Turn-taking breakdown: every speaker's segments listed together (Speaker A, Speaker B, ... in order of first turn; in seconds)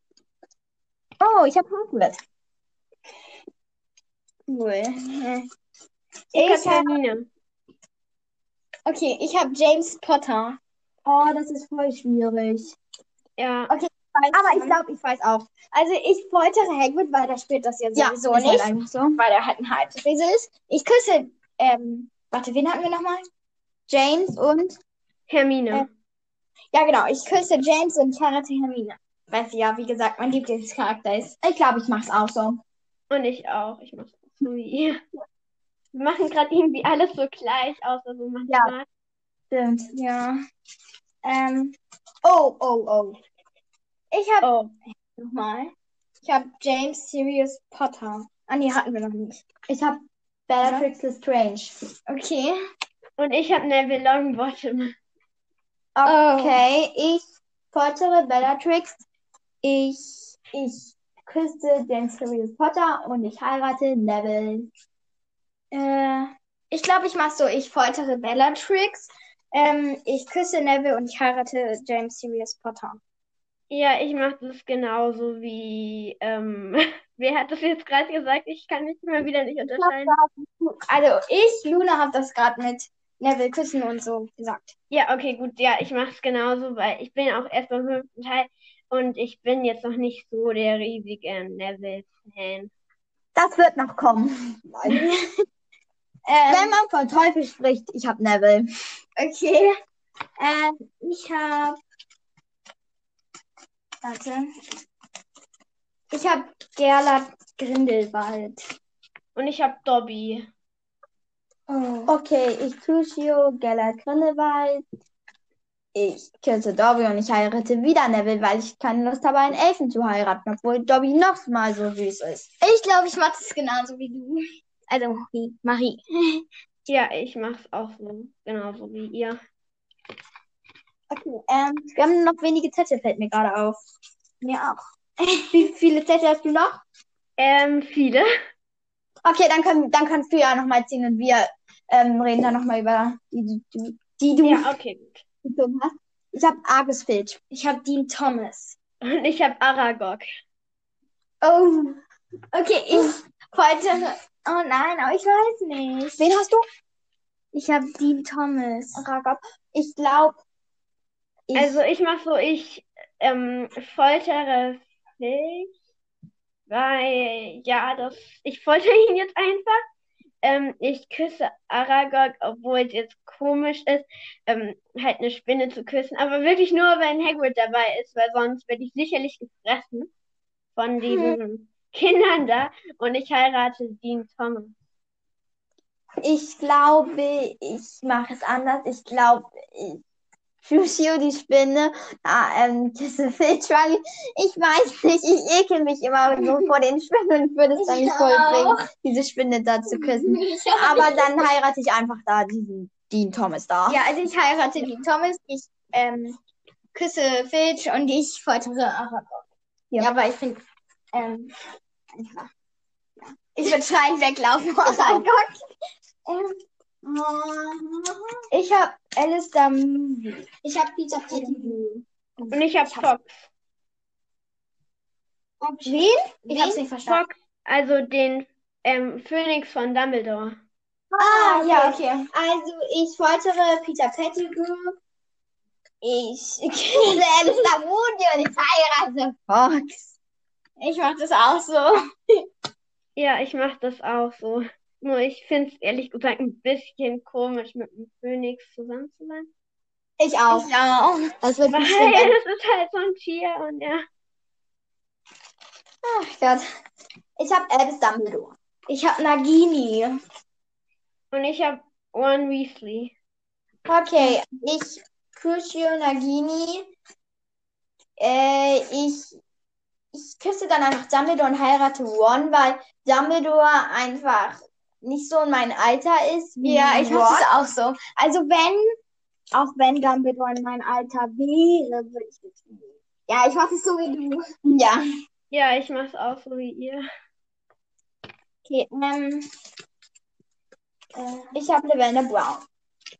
Speaker A: 1.2-2.2, 11.1-12.8, 14.3-15.5, 17.9-19.2, 23.9-24.8, 31.4-32.6, 38.5-38.7, 39.5-39.9, 42.2-43.2, 49.7-51.7, 56.0-59.0, 59.6-64.7, 80.1-80.5, 93.4-95.1, 96.5-98.7, 112.1-114.8, 116.0-122.5, 131.9-133.8, 135.5-136.8, 139.2-144.7, 145.4-147.4, 151.4-151.9, 156.2-156.6, 158.9-160.4, 161.5-161.8, 186.2-190.0, 190.6-204.0, 214.8-215.6, 217.0-218.4, 220.8-221.8, 225.6-226.8, 231.1-234.9, 236.9-240.2, 250.2-250.7, 251.4-252.3, 256.0-256.6, 257.4-258.5, 263.9-266.9, 268.2-269.4, 270.1-277.5, 284.6-285.0, 291.5-292.6
Speaker B: 4.5-5.5, 6.4-6.8, 8.9-10.6, 13.7-14.8, 15.7-23.3, 26.7-31.4, 39.9-40.4, 41.2-41.8, 44.1-44.5, 45.1-49.4, 50.6-50.9, 52.1-52.6, 56.0-56.6, 65.7-73.0, 80.8-84.8, 96.2-96.8, 99.2-99.7, 100.4-101.8, 104.0-104.5, 106.1-108.6, 111.7-112.1, 122.6-126.4, 131.1-131.9, 134.4-135.6, 147.5-148.8, 152.5-156.2, 157.5-159.0, 181.1-181.4, 196.4-196.7, 197.8-198.9, 199.9-201.5, 203.9-206.4, 206.9-209.4, 210.0-210.6, 211.1-211.5, 212.2-212.5, 213.2-215.2, 216.2-216.6, 218.5-223.1, 225.8-227.2, 231.1-232.3, 236.0-237.2, 240.8-242.0, 250.5-251.3, 258.9-260.2, 276.6-278.9, 279.5-284.4, 288.6-289.5, 291.1-291.5
Speaker C: 6.3-7.2, 13.4-13.7, 25.3-25.9, 33.1-35.0, 35.9-38.9, 44.4-44.7, 53.2-55.0, 73.7-80.2, 84.9-92.7, 109.4-110.5, 126.9-129.4, 137.4-138.2, 144.4-145.2, 149.0-150.2, 161.6-165.7, 166.7-169.8, 170.4-180.1, 180.8-184.8, 222.5-223.5, 227.1-230.6, 243.2-249.5, 251.7-254.0, 261.3-263.1, 285.5-287.1